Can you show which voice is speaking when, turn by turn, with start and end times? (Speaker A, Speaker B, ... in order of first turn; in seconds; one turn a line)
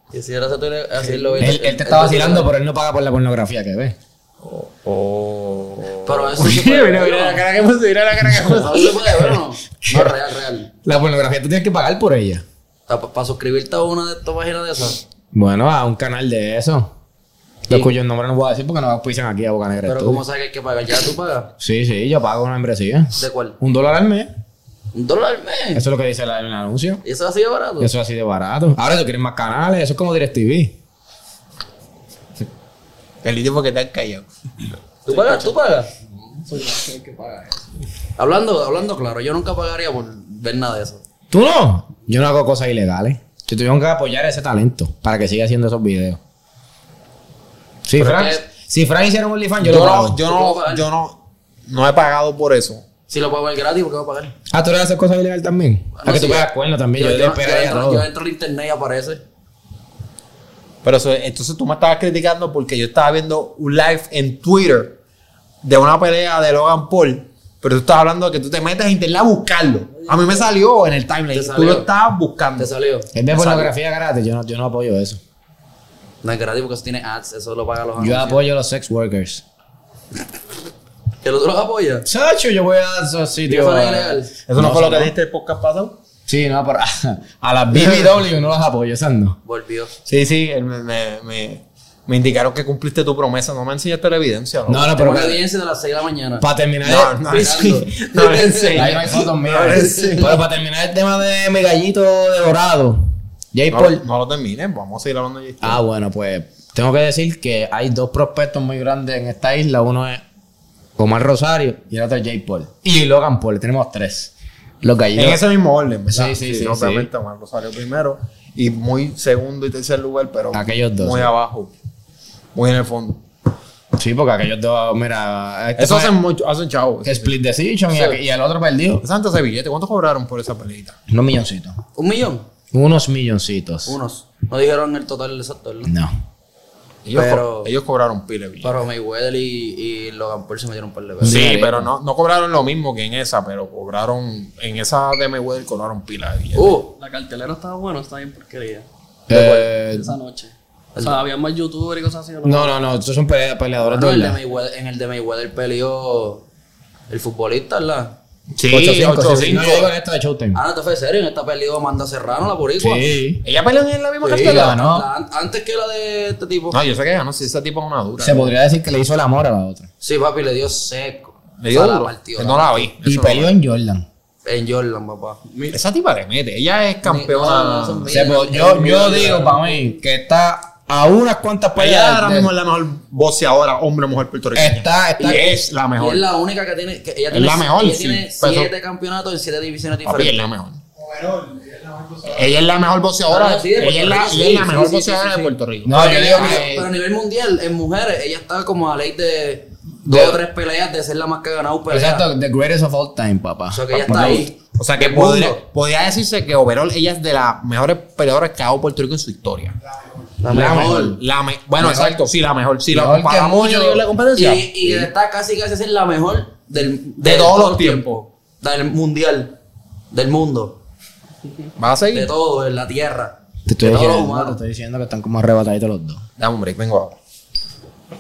Speaker A: 0.1-2.5
Speaker B: 1.0-1.5
Speaker C: 1.4-4.0
Speaker D: 4.4-9.3
Speaker A: 6.0-7.4
Speaker A: 8.4-10.7
Speaker C: 9.8-10.2
Speaker C: 10.8-12.4
Speaker A: 12.9-15.0
Speaker C: 15.3-16.9
Speaker C: 17.7-20.2
Speaker A: 19.9-21.5
Speaker C: 21.6-24.3
Speaker A: 23.2-23.6
Speaker A: 24.9-25.9
Speaker C: 25.7-27.0
Speaker A: 27.0-27.9
Speaker C: 27.8-30.8
Speaker D: 33.2-34.3
Speaker A: 35.1-35.9
Speaker B: 35.1-35.5
Speaker B: 36.4-37.7
Speaker A: 38.2-41.0
Speaker C: 41.3-46.2
Speaker C: 47.9-50.2
Speaker A: 48.0-48.5
Speaker D: 49.6-52.8
Speaker A: 50.2-50.9
Speaker A: 53.1-54.3
Speaker C: 54.5-58.1
Speaker A: 56.0-59.2
Speaker D: 60.8-65.0
Speaker D: 65.6-72.7
Speaker B: 70.1-70.5
Speaker A: 71.3-71.9
Speaker A: 72.6-73.1
Speaker C: 73.1-75.2
Speaker D: 73.3-73.7
Speaker A: 76.2-78.4
Speaker C: 78.0-79.4
Speaker A: 81.2-82.1
Speaker C: 82.1-85.1
Speaker A: 83.5-84.3
Speaker D: 84.5-86.0
Speaker C: 86.3-89.4
Speaker D: 87.7-88.2
Speaker A: 89.5-89.9
Speaker D: 90.1-94.9
Speaker C: 94.7-95.4
Speaker A: 94.9-96.5
Speaker C: 96.4-97.6
Speaker D: 96.8-100.4
Speaker A: 97.3-99.0
Speaker C: 98.8-103.0
Speaker A: 99.7-100.4
Speaker C: 103.5-104.0
Speaker D: 103.7-105.8
Speaker C: 105.6-110.2
Speaker C: 111.0-115.4
Speaker D: 115.2-121.7
Speaker C: 116.1-117.1
Speaker C: 120.5-121.3
Speaker D: 122.5-123.2
Speaker C: 124.0-126.2
Speaker D: 125.8-127.3
Speaker C: 127.0-129.0
Speaker D: 129.0-131.0
Speaker C: 131.1-131.8
Speaker A: 131.9-132.5
Speaker C: 132.7-133.9
Speaker A: 133.9-135.9
Speaker C: 135.9-136.1
Speaker D: 137.1-138.7
Speaker A: 137.1-137.7
Speaker A: 138.6-141.5
Speaker C: 141.2-141.9
Speaker D: 141.2-146.8
Speaker A: 146.5-146.9
Speaker B: 147.0-148.9
Speaker C: 149.3-150.1
Speaker A: 149.3-149.7
Speaker B: 149.7-152.8
Speaker A: 150.9-151.2
Speaker C: 152.4-154.4
Speaker A: 153.8-156.4
Speaker A: 157.1-158.2
Speaker D: 158.6-159.9
Speaker C: 158.7-160.6
Speaker A: 160.5-163.1
Speaker C: 162.8-163.4
Speaker D: 163.4-164.8
Speaker A: 164.2-166.8
Speaker C: 164.4-165.1
Speaker D: 166.7-168.5
Speaker C: 168.2-169.9
Speaker A: 170.0-172.9
Speaker D: 171.6-173.5
Speaker C: 173.0-174.1
Speaker A: 174.5-175.4
Speaker B: 175.5-175.8
Speaker D: 175.7-178.2
Speaker A: 177.0-179.6
Speaker C: 178.1-182.5
Speaker B: 178.8-179.9
Speaker D: 181.8-186.2
Speaker C: 184.5-185.6
Speaker A: 185.2-190.4
Speaker D: 187.3-188.7
Speaker D: 190.1-196.7
Speaker A: 193.3-202.3
Speaker C: 195.8-196.9
Speaker C: 200.1-200.4
Speaker C: 201.9-204.5
Speaker A: 203.7-205.6
Speaker D: 204.0-209.8
Speaker A: 210.4-211.2
Speaker D: 210.5-215.1
Speaker C: 210.5-211.2
Speaker C: 211.8-212.3
Speaker C: 212.9-214.0
Speaker A: 214.3-219.5
Speaker D: 217.2-218.1
Speaker A: 220.1-220.8
Speaker D: 221.8-222.3
Speaker A: 222.1-224.6
Speaker C: 223.7-226.2
Speaker D: 226.4-227.2